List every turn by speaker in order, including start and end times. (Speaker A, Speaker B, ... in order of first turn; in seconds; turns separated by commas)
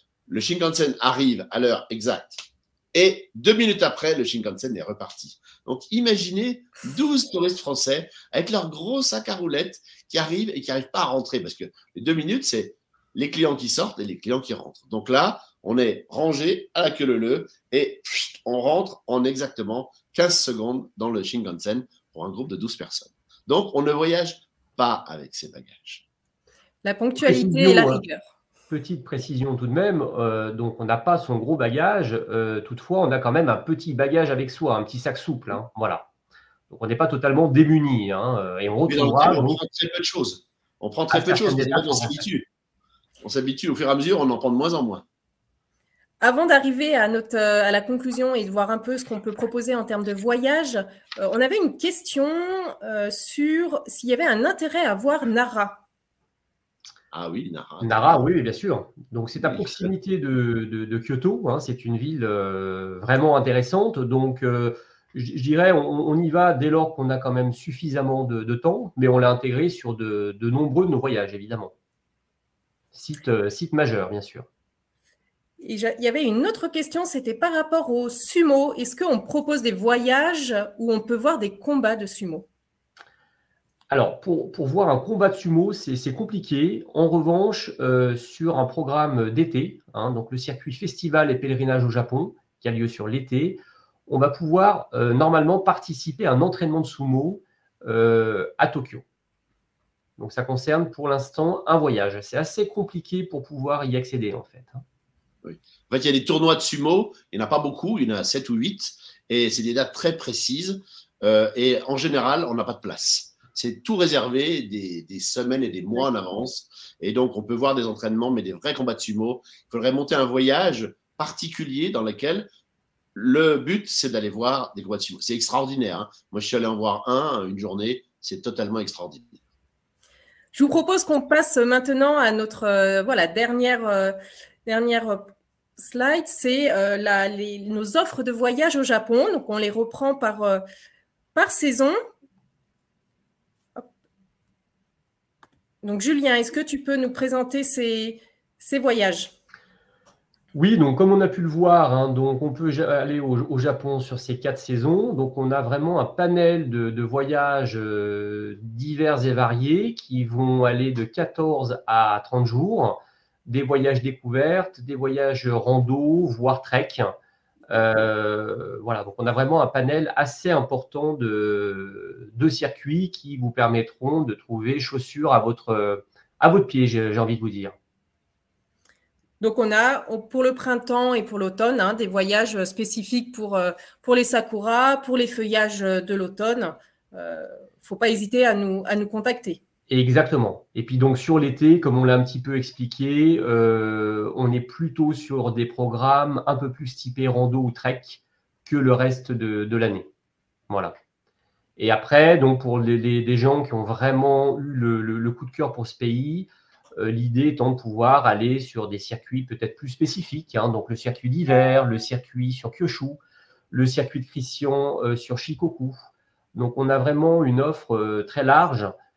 Speaker A: 0.3-26.0, Speaker B: 26.8-28.2, Speaker C: 27.2-28.0, Speaker C: 28.7-36.1, Speaker C: 36.7-39.6, Speaker A: 38.9-42.5, Speaker C: 41.1-42.2, Speaker A: 43.2-45.0, Speaker B: 46.2-55.8, Speaker A: 57.1-58.2, Speaker C: 57.8-71.7, Speaker A: 59.4-59.9, Speaker C: 72.9-74.5, Speaker B: 75.6-82.5, Speaker C: 83.9-99.0, Speaker C: 100.2-104.8, Speaker A: 105.4-122.5, Speaker A: 123.1-129.4, Speaker B: 130.5-140.6, Speaker B: 141.3-141.9, Speaker B: 145.8-149.3, Speaker C: 150.5-167.1, Speaker C: 167.7-177.7, Speaker B: 179.4-189.6, Speaker C: 189.9-200.1, Speaker C: 201.8-213.2, Speaker C: 213.7-216.0, Speaker C: 216.5-218.9